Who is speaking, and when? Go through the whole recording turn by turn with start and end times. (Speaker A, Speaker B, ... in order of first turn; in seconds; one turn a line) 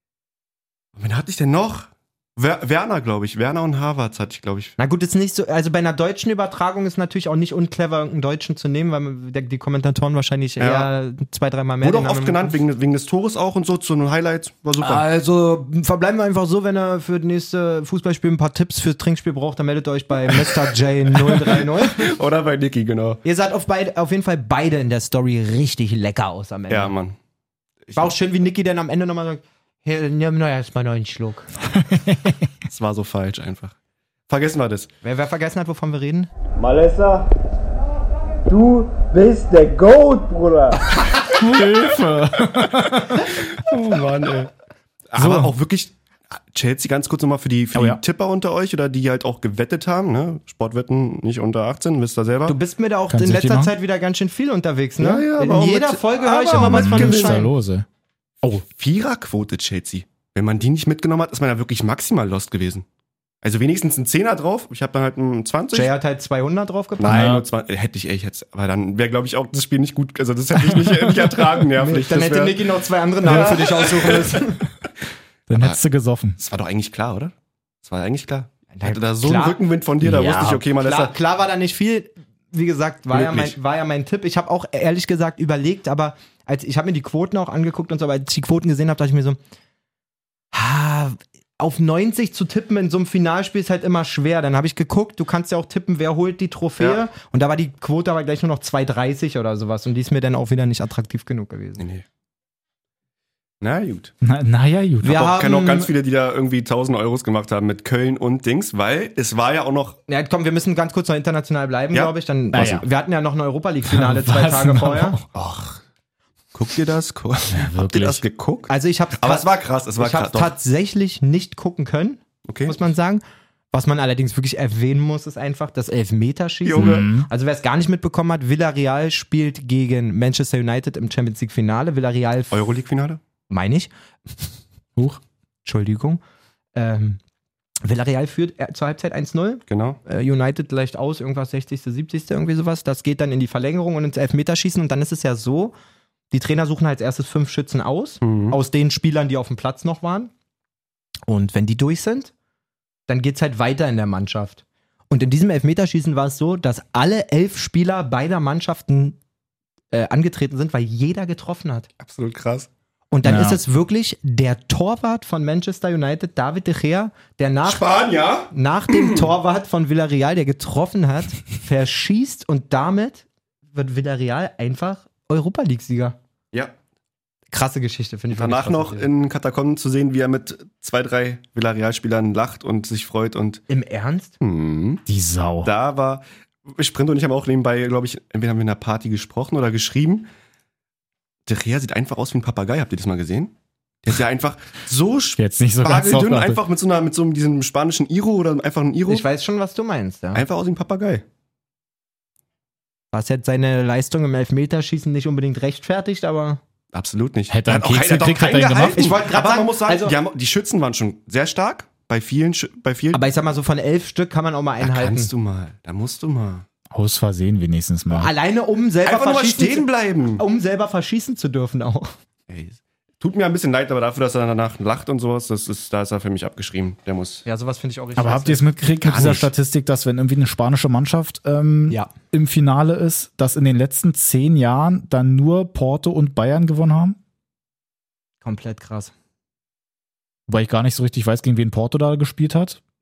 Speaker A: 1.0-4.8
Speaker B: 4.8-12.6
Speaker A: 10.6-10.9
Speaker A: 11.8-15.1
Speaker B: 14.8-22.1
Speaker A: 21.2-23.2
Speaker B: 23.2-26.9
Speaker A: 26.7-27.2
Speaker B: 27.9-31.5
Speaker C: 31.8-32.4
Speaker A: 32.7-33.8
Speaker A: 34.3-34.9
Speaker B: 35.0-36.3
Speaker D: 36.6-37.3
Speaker D: 38.5-40.8
Speaker C: 41.2-43.4
Speaker A: 43.3-44.5
Speaker A: 45.1-52.6
Speaker C: 45.2-45.5
Speaker C: 47.7-48.0
Speaker B: 52.5-57.5
Speaker C: 53.1-53.7
Speaker A: 55.0-57.5
Speaker C: 56.6-57.9
Speaker A: 58.5-62.9
Speaker A: 63.4-65.9
Speaker B: 65.7-67.3
Speaker A: 67.0-72.7
Speaker C: 67.0-67.5
Speaker C: 70.6-71.5
Speaker B: 71.8-74.6
Speaker A: 73.2-74.4
Speaker C: 73.3-73.6
Speaker C: 75.5-76.4
Speaker A: 75.5-75.8
Speaker A: 76.4-77.3
Speaker A: 77.8-81.1
Speaker B: 78.8-79.6
Speaker C: 80.0-80.6
Speaker B: 80.8-89.4
Speaker A: 83.1-83.5
Speaker B: 90.5-101.8
Speaker A: 101.8-102.0
Speaker A: 103.6-104.1
Speaker C: 104.2-105.3
Speaker B: 105.0-105.9
Speaker A: 105.1-110.0
Speaker B: 110.1-115.2
Speaker C: 112.5-112.8
Speaker C: 113.9-115.4
Speaker A: 115.4-115.8
Speaker A: 116.5-120.5
Speaker C: 117.5-118.2
Speaker B: 118.7-132.7
Speaker A: 122.5-122.8
Speaker A: 126.7-127.1
Speaker C: 126.8-127.3
Speaker A: 132.5-133.2
Speaker B: 133.5-133.9
Speaker B: 135.7-136.2
Speaker B: 136.8-137.2
Speaker B: 137.8-145.7
Speaker A: 139.7-140.0
Speaker B: 146.3-150.3
Speaker A: 148.2-148.6
Speaker B: 151.3-152.3
Speaker B: 153.1-159.2
Speaker B: 159.9-161.9
Speaker A: 162.0-162.7
Speaker B: 163.1-167.9
Speaker C: 163.2-163.6
Speaker A: 167.7-169.3
Speaker B: 168.5-176.2
Speaker B: 177.5-179.1
Speaker A: 178.3-183.6
Speaker B: 183.7-184.3
Speaker A: 184.4-185.0
Speaker C: 185.1-185.7
Speaker A: 185.6-190.3
Speaker A: 191.5-193.5
Speaker A: 194.0-199.3
Speaker C: 195.4-196.6
Speaker B: 199.1-200.4
Speaker A: 200.3-201.2
Speaker B: 203.1-206.6
Speaker A: 206.9-213.2
Speaker C: 207.5-209.1
Speaker B: 208.9-210.2
Speaker B: 213.1-215.3
Speaker A: 214.8-216.7
Speaker C: 216.9-218.3
Speaker B: 218.1-222.1
Speaker A: 219.1-220.4
Speaker A: 222.5-227.4
Speaker B: 227.5-228.8
Speaker C: 228.2-237.2
Speaker A: 229.0-229.5
Speaker B: 238.4-239.1
Speaker C: 240.5-242.8